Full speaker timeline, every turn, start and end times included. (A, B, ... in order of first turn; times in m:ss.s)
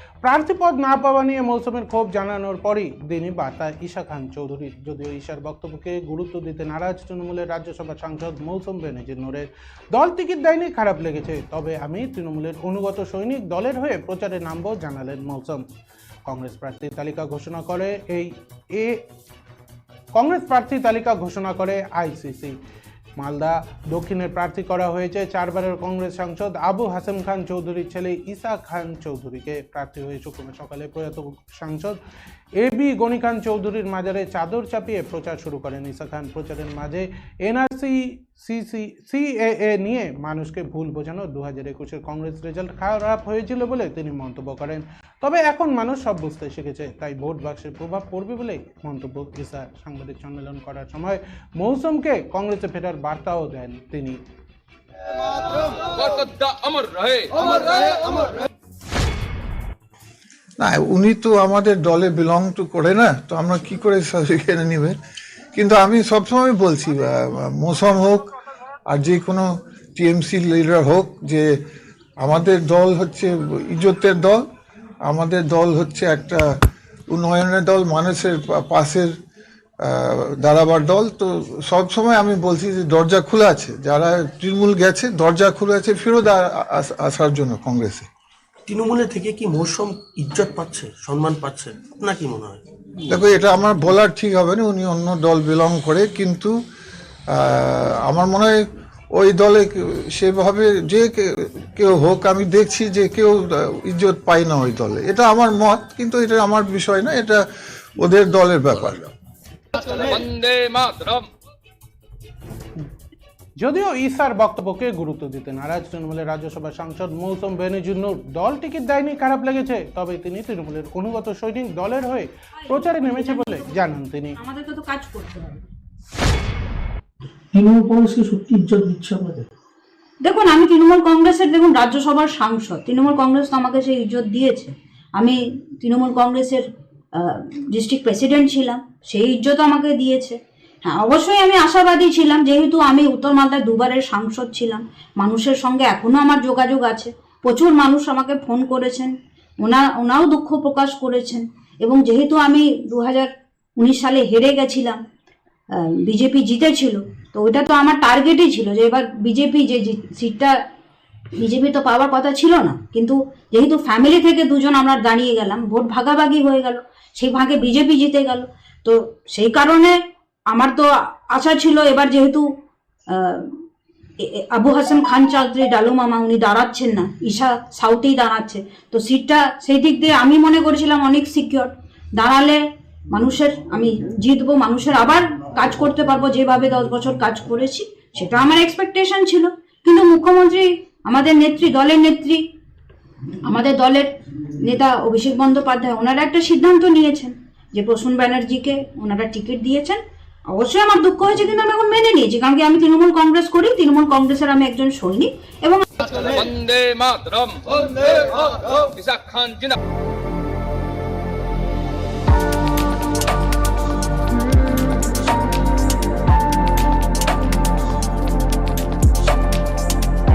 0:00.2-0:15.7 A
0:16.3-0:19.0 A
0:20.2-0:22.6 A
0:23.2-0:32.0 A
0:32.6-0:54.2 A
0:55.9-0:58.2 B
1:00.6-1:05.0 C
1:05.5-1:08.3 C
1:08.9-1:11.5 C
1:12.2-1:14.4 C
1:15.1-1:16.5 C
1:17.1-1:19.1 C
1:19.8-1:28.1 C
1:28.7-1:32.6 D
1:33.1-1:36.6 C
1:37.3-1:47.4 C
1:48.0-1:49.1 C
1:49.8-1:51.3 B
1:53.6-2:04.4 A
2:02.6-2:05.7 E
2:07.5-2:09.5 F
2:10.2-2:16.6 E
2:17.2-2:35.0 E
2:35.8-2:40.6 E
2:41.4-2:50.0 E
2:50.5-2:52.5 E
2:53.1-2:53.6 E
2:54.2-3:02.6 E
3:03.1-3:12.4 E
3:13.4-3:20.0 E
3:20.5-3:25.8 E
3:26.0-3:29.8 B